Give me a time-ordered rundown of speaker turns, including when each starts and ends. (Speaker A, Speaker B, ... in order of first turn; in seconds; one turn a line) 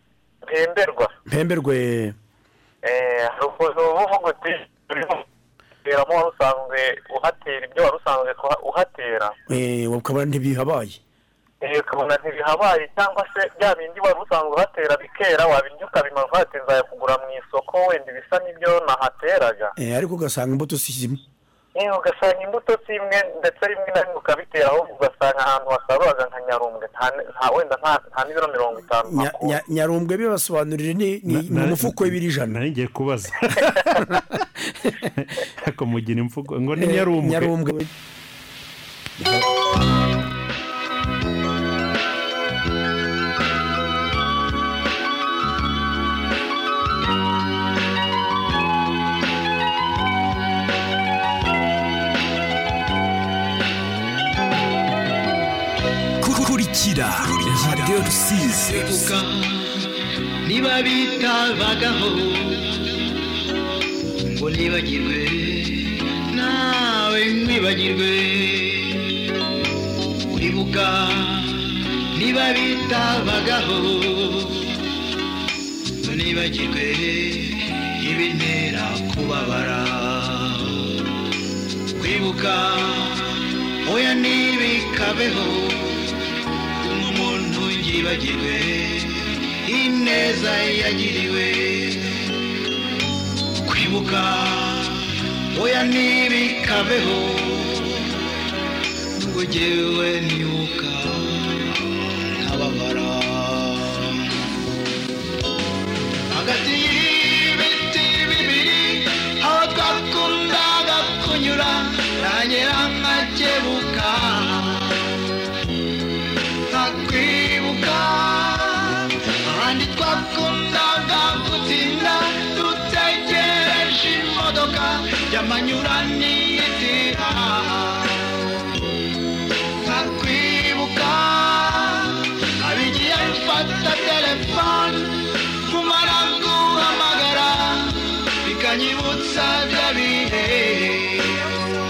Speaker A: 0.4-1.1
Speaker B: 1.3-2.2
Speaker A: 2.8-5.2
Speaker A: 5.8-9.3
Speaker B: 9.5-11.0
Speaker A: 11.6-19.7
Speaker B: 19.8-21.2
Speaker A: 21.8-29.6
Speaker B: 29.1-32.6
Speaker C: 31.3-34.2
Speaker C: 35.2-37.5
Speaker B: 36.8-37.9
Speaker B: 39.2-39.5
Speaker D: 56.2-59.2
Speaker E: 58.8-59.6
Speaker E: 60.5-62.5
Speaker E: 64.3-68.8
Speaker E: 70.3-71.5
Speaker E: 72.2-74.5
Speaker E: 76.0-80.4
Speaker E: 82.0-83.1
Speaker E: 83.8-85.9
Speaker E: 86.9-89.1
Speaker E: 89.7-92.0
Speaker E: 93.7-94.9
Speaker E: 95.5-97.9
Speaker E: 99.2-101.3
Speaker E: 102.4-103.9
Speaker E: 106.3-114.8
Speaker E: 116.7-118.9
Speaker E: 119.5-128.1
Speaker E: 129.8-132.0
Speaker E: 132.6-135.1
Speaker E: 135.7-137.9
Speaker E: 138.4-141.3